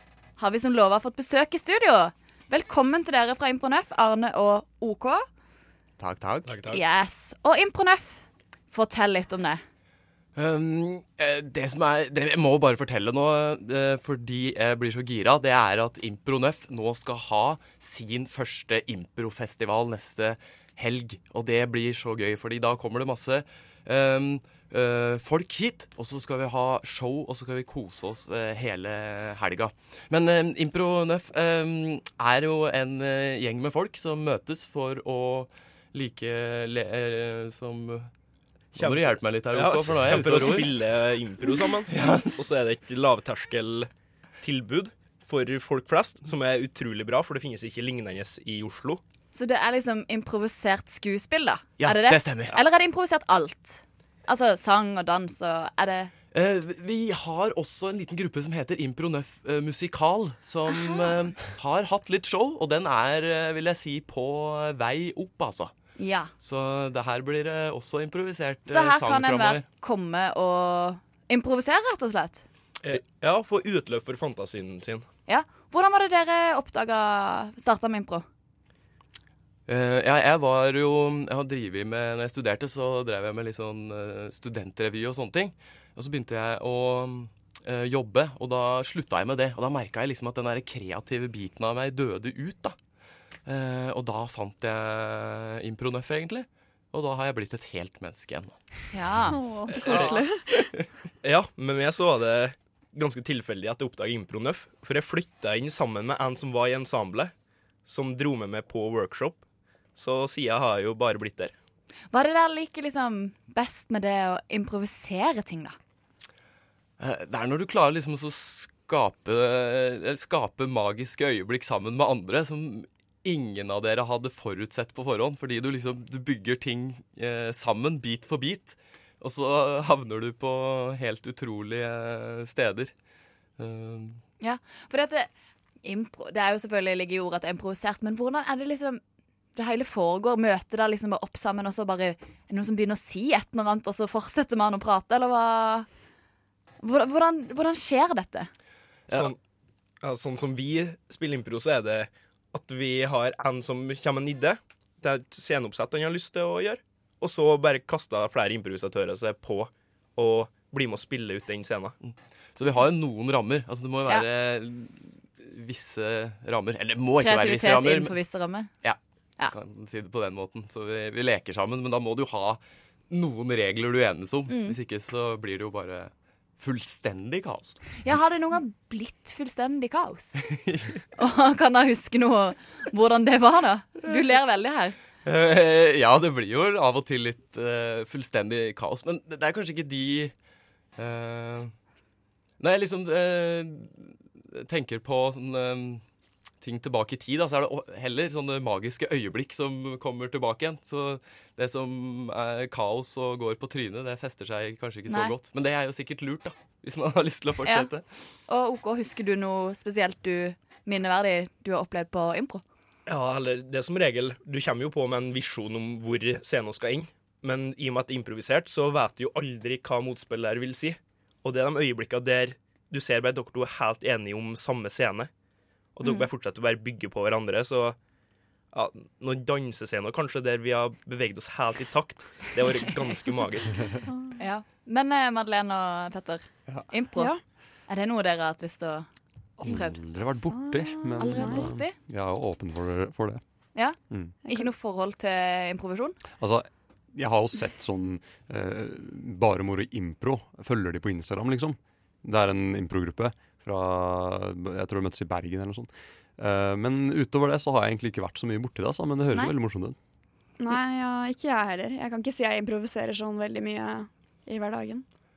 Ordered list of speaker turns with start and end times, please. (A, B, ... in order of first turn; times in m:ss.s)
0:00.4-0:05.2 A
0:06.0-0:06.5 B
0:06.4-0:06.8 C
0:06.7-0:09.6 A
0:10.4-0:38.1 B
0:38.7-0:40.8 B
0:38.8-0:43.9 C
0:41.9-0:42.3 B
0:44.4-0:49.0 C
0:49.3-0:56.1 A
0:51.8-0:52.6 B
0:56.3-1:05.7 B
1:06.0-1:06.3 A
1:06.4-1:09.6 B
1:08.6-1:12.4 A
1:12.8-1:15.0 C
1:15.3-1:18.2 A
1:19.7-1:32.7 B
1:33.4-1:38.6 B
1:38.9-1:40.2 A
1:39.2-1:40.6 D
1:39.8-1:40.1 C
1:41.2-1:47.3 C
1:47.9-1:49.4 C
1:50.0-1:51.5 C
1:52.1-1:55.8 A
1:57.0-2:12.9 B
2:13.6-2:14.2 B
2:14.4-2:15.3 A
2:15.8-2:19.0 A
2:19.5-2:25.9 A
2:26.8-2:28.5 A
2:29.1-2:29.4 C
2:30.0-2:41.9 C
2:42.0-2:48.2 B
2:47.2-2:48.7 A
2:48.8-2:57.8 B
2:54.5-2:54.8 A
2:58.0-3:00.4 A
3:01.2-3:05.0 A
3:05.2-3:10.3 B
3:11.0-3:11.7 B
3:12.6-3:16.0 B
3:16.6-3:28.0 B
3:25.1-3:25.3 A
3:27.6-3:27.9 A
3:28.5-3:32.6 A
3:33.0-3:45.3 C
3:46.0-3:48.0 C
3:46.0-3:46.3 A
3:48.7-3:53.8 C
3:54.4-3:57.3 A
3:57.2-3:57.4 D
3:57.9-3:59.0 A
3:59.6-4:03.4 E
3:59.6-4:00.0 A
4:00.7-4:01.6 D
4:01.2-4:01.9 A
4:03.7-4:06.2 A
4:04.1-4:04.4 E
4:06.4-4:20.0 E
4:20.6-4:25.0 D